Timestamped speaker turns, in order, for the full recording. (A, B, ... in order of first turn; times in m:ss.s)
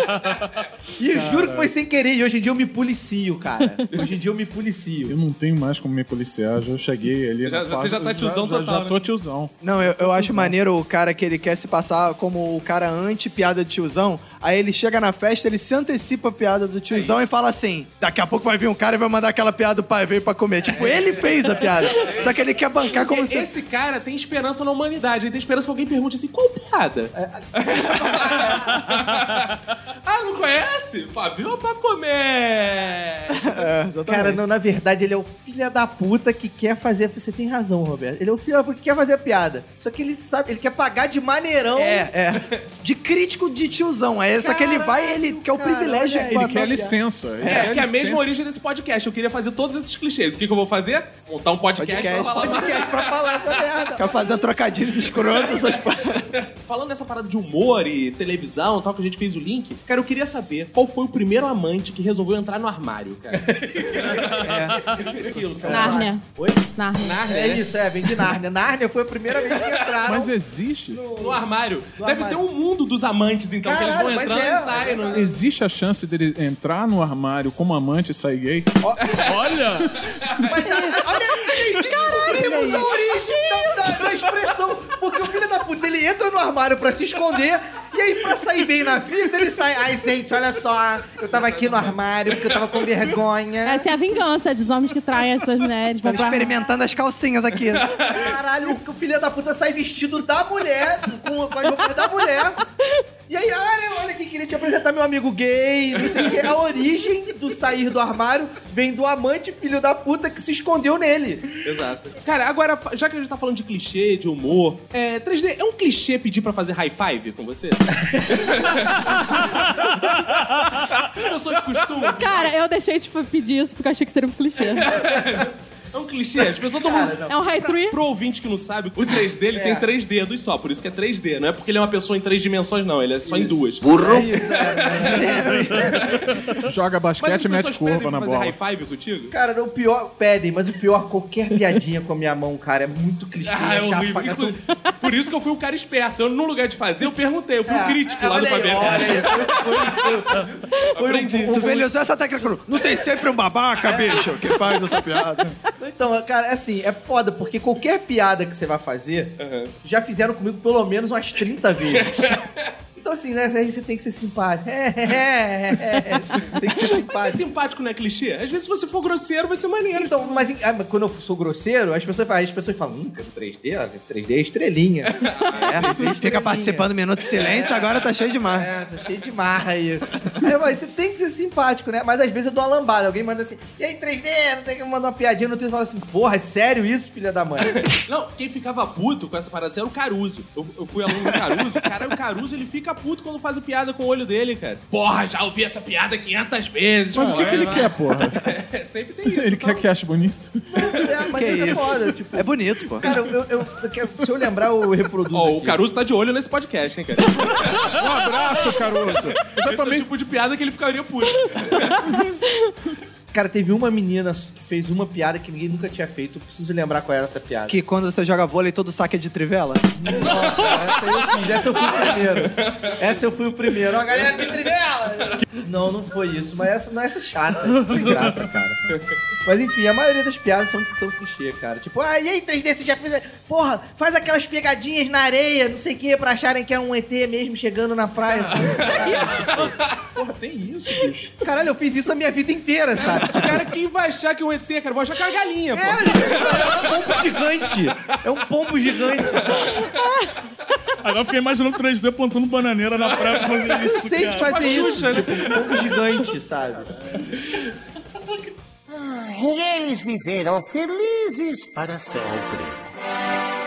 0:01.0-0:05.2 A
0:01.1-0:01.7 B
0:05.1-0:10.5 B
0:07.4-0:09.0 C
0:09.6-0:23.5 D
0:16.9-0:17.3 C
0:20.6-0:21.7 A
0:20.7-0:29.5 C
0:27.1-0:28.8 A
0:30.0-0:33.7 C
0:33.3-0:34.4 D
0:34.0-0:42.1 A
0:41.8-0:47.6 D
0:44.4-0:46.9 A
0:46.3-0:48.2 B
0:47.4-0:53.9 C
0:51.8-0:52.8 D
0:51.9-0:54.2 A
0:54.0-0:56.3 D
0:55.3-0:55.8 C
0:56.3-1:06.0 C
1:03.9-1:06.7 A
1:04.3-1:05.0 E
1:04.4-1:04.8 D
1:05.7-1:06.2 F
1:06.8-1:07.2 F
1:07.0-1:07.6 C
1:07.2-1:10.3 A
1:09.5-1:09.8 C
1:10.0-1:11.1 B
1:10.9-1:11.4 A
1:11.2-1:15.3 C
1:12.0-1:12.4 A
1:13.6-1:15.4 A
1:15.1-1:18.8 B
1:18.8-1:19.4 A
1:19.2-1:19.9 E
1:20.5-1:33.9 A
1:31.3-1:32.8 C
1:33.6-1:36.5 F
1:36.0-1:37.9 D
1:37.7-1:38.3 C
1:38.0-1:42.6 A
1:43.3-1:51.6 A
1:51.6-1:59.7 C
1:58.1-1:58.7 A
2:01.0-2:02.5 C
2:02.0-2:04.9 F
2:04.8-2:14.2 C
2:06.4-2:07.4 A
2:07.3-2:08.0 F
2:09.5-2:09.9 A
2:13.2-2:16.0 A
2:15.0-2:16.0 D
2:15.8-2:16.2 C
2:16.6-2:18.6 B
2:17.2-2:19.3 C
2:19.3-2:24.6 A
2:23.4-2:30.1 C
2:27.7-2:31.8 A
2:30.9-2:31.8 C
2:31.5-2:35.5 D
2:33.8-2:34.4 A
2:35.8-2:42.3 A
2:39.4-2:39.7 C
2:41.9-2:42.4 C
2:43.0-2:47.4 A
2:46.5-2:50.4 C
2:49.9-3:07.9 A
2:55.2-2:56.0 C
2:55.6-2:58.7 D
3:07.9-3:19.8 C
3:17.1-3:18.5 B
3:17.3-3:17.7 A
3:19.2-3:21.1 B
3:20.7-3:25.8 A
3:21.3-3:23.1 D
3:25.3-3:28.0 C
3:27.9-3:30.1 B
3:29.4-3:32.0 C
3:32.4-3:32.7 F
3:33.3-3:37.8 A
3:37.7-3:39.9 D
3:40.0-3:48.8 A
3:41.8-3:42.9 C
3:47.8-3:48.2 E
3:49.4-3:59.7 A
3:58.6-3:59.9 C
3:59.0-3:59.5 B
4:00.2-4:01.3 B
4:01.4-4:03.6 A
4:03.0-4:07.3 C
4:05.7-4:09.8 A
4:08.8-4:09.8 C
4:09.9-4:10.3 F
4:11.0-4:15.2 E
4:13.2-4:13.7 C
4:13.8-4:16.9 A
4:14.4-4:16.0 C
4:17.3-4:17.6 C
4:18.9-4:22.8 G